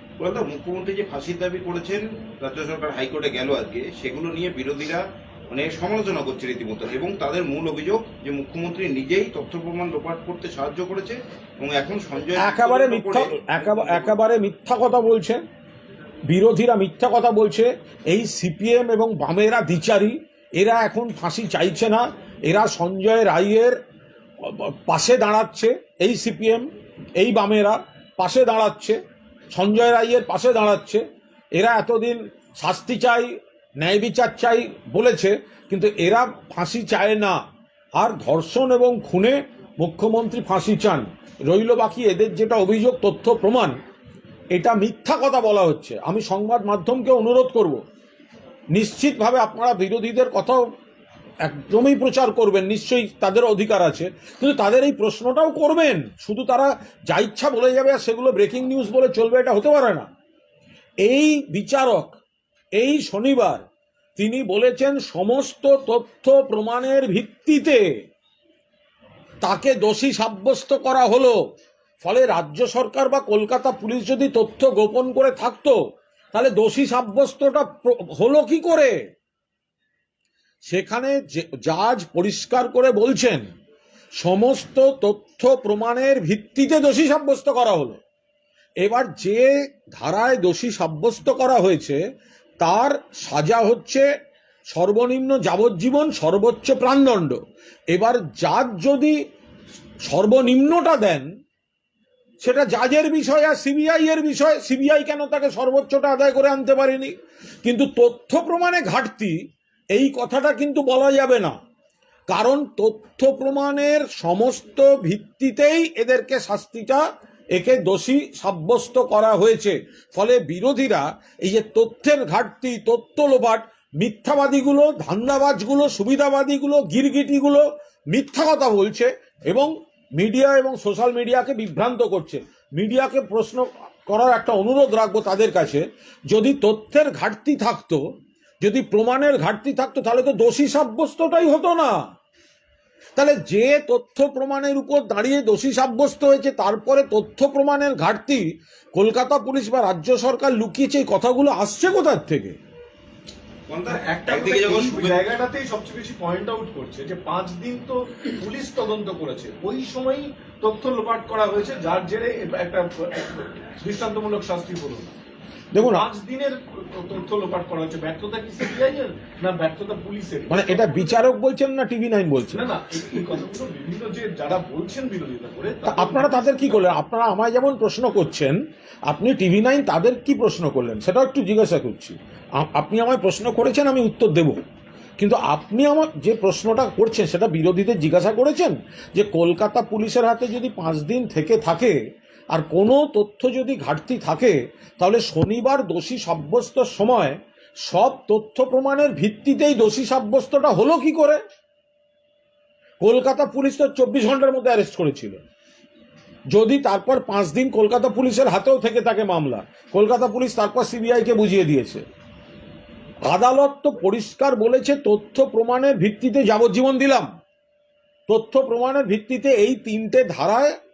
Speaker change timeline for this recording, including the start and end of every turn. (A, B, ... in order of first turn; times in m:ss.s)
0:00.2-0:14.2 A
0:12.4-0:15.4 B
0:16.3-0:23.8 B
0:24.4-0:29.0 B
0:29.5-0:37.4 B
0:37.9-0:43.8 B
0:44.5-0:47.8 B
0:48.7-0:50.6 B
0:51.4-1:00.1 B
1:01.0-1:02.2 B
1:02.8-1:03.6 B
1:04.2-1:07.9 B
1:09.4-1:11.4 B
1:12.0-1:15.8 B
1:16.3-1:19.0 B
1:20.6-1:23.4 B
1:24.2-1:28.0 B
1:28.8-1:32.0 B
1:32.6-1:34.0 B
1:34.7-1:37.4 B
1:37.9-1:39.2 B
1:40.0-1:41.3 B
1:42.4-1:51.6 B
1:52.3-2:18.0 B
2:18.6-2:22.0 B
2:23.2-2:32.6 B
2:33.7-2:35.2 A
2:33.9-2:45.1 C
2:45.7-2:46.1 B
2:45.8-2:51.1 C
2:50.5-2:52.7 B
2:52.5-2:56.9 C
2:55.8-3:04.6 B
3:05.2-3:12.0 B
3:12.5-3:21.4 B
3:23.0-3:25.4 B
3:26.5-3:32.0 B
3:33.3-3:37.3 B
3:38.3-3:40.8 B